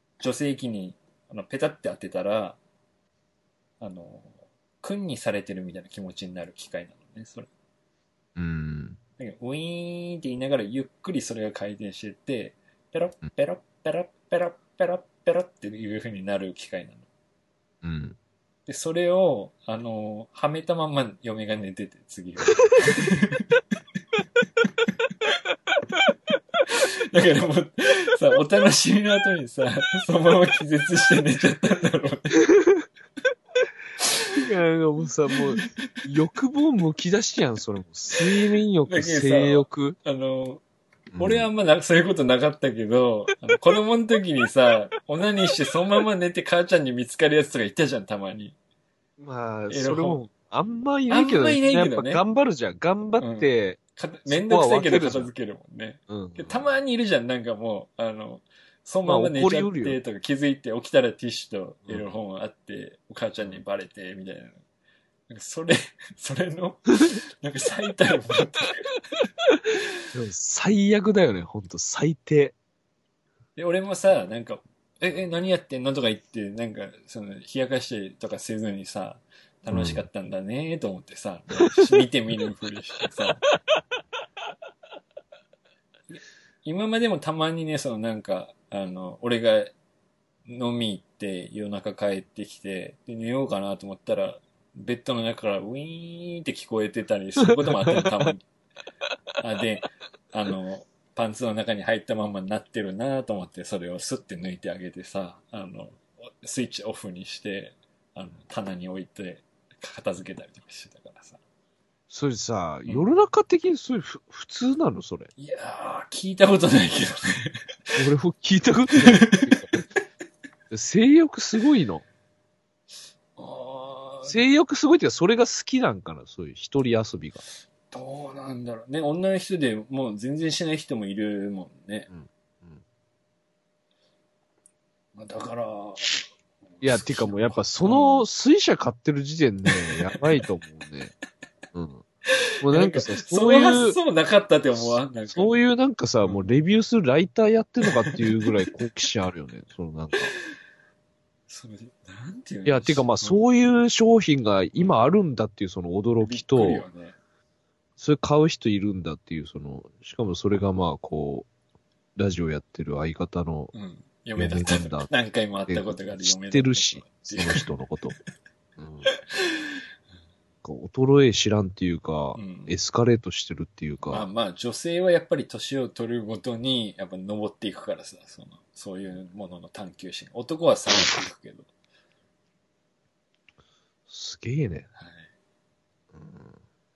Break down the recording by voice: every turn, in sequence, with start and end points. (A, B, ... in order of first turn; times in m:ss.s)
0:00.2-0:02.6 A
0:03.8-0:07.5 A
0:08.4-0:09.0 B
0:09.2-0:17.0 A
0:17.8-0:18.2 B
0:18.6-0:23.5 A
0:26.7-0:32.4 A
0:34.3-0:40.0 B
0:35.3-0:35.8 A
0:38.8-0:40.6 A
0:41.1-0:41.5 B
0:41.2-0:48.6 A
0:49.2-0:55.3 B
0:49.7-0:50.2 A
0:51.1-0:52.2 A
0:53.2-1:04.6 A
0:56.1-0:56.7 B
0:59.0-1:00.0 B
1:05.3-1:09.0 A
1:10.1-1:12.5 B
1:13.6-1:23.4 A
1:19.7-1:20.1 B
1:26.1-1:29.7 A
1:30.4-1:38.4 A
1:37.8-1:38.3 B
1:39.4-1:51.4 A
1:52.1-1:55.3 B
1:55.4-1:58.0 A
1:58.0-1:59.6 B
1:59.0-1:59.8 A
2:00.7-2:02.0 B
2:03.4-2:04.4 A
2:04.2-2:07.4 B
2:07.9-2:12.1 A
2:12.1-2:12.8 B
2:15.1-2:16.2 A
2:16.8-2:18.2 A
2:16.8-2:21.1 B
2:20.1-2:20.4 A
2:21.7-2:22.0 B
2:22.6-2:24.0 B
2:22.7-2:25.6 A
2:24.7-2:30.3 B
2:26.2-2:26.5 A
2:28.0-2:28.4 A
2:31.5-2:33.4 A
2:32.6-2:36.8 B
2:36.2-2:37.2 A
2:38.0-2:41.5 B
2:42.2-2:43.7 B
2:43.7-2:47.7 A
2:44.4-2:45.1 B
2:45.7-2:48.1 B
2:48.8-2:49.1 B
2:49.0-2:49.6 A
2:50.6-2:54.3 B
2:52.4-2:52.7 A
2:54.0-3:01.7 A
3:04.1-3:04.9 B
3:04.9-3:05.3 A
3:06.1-3:06.6 B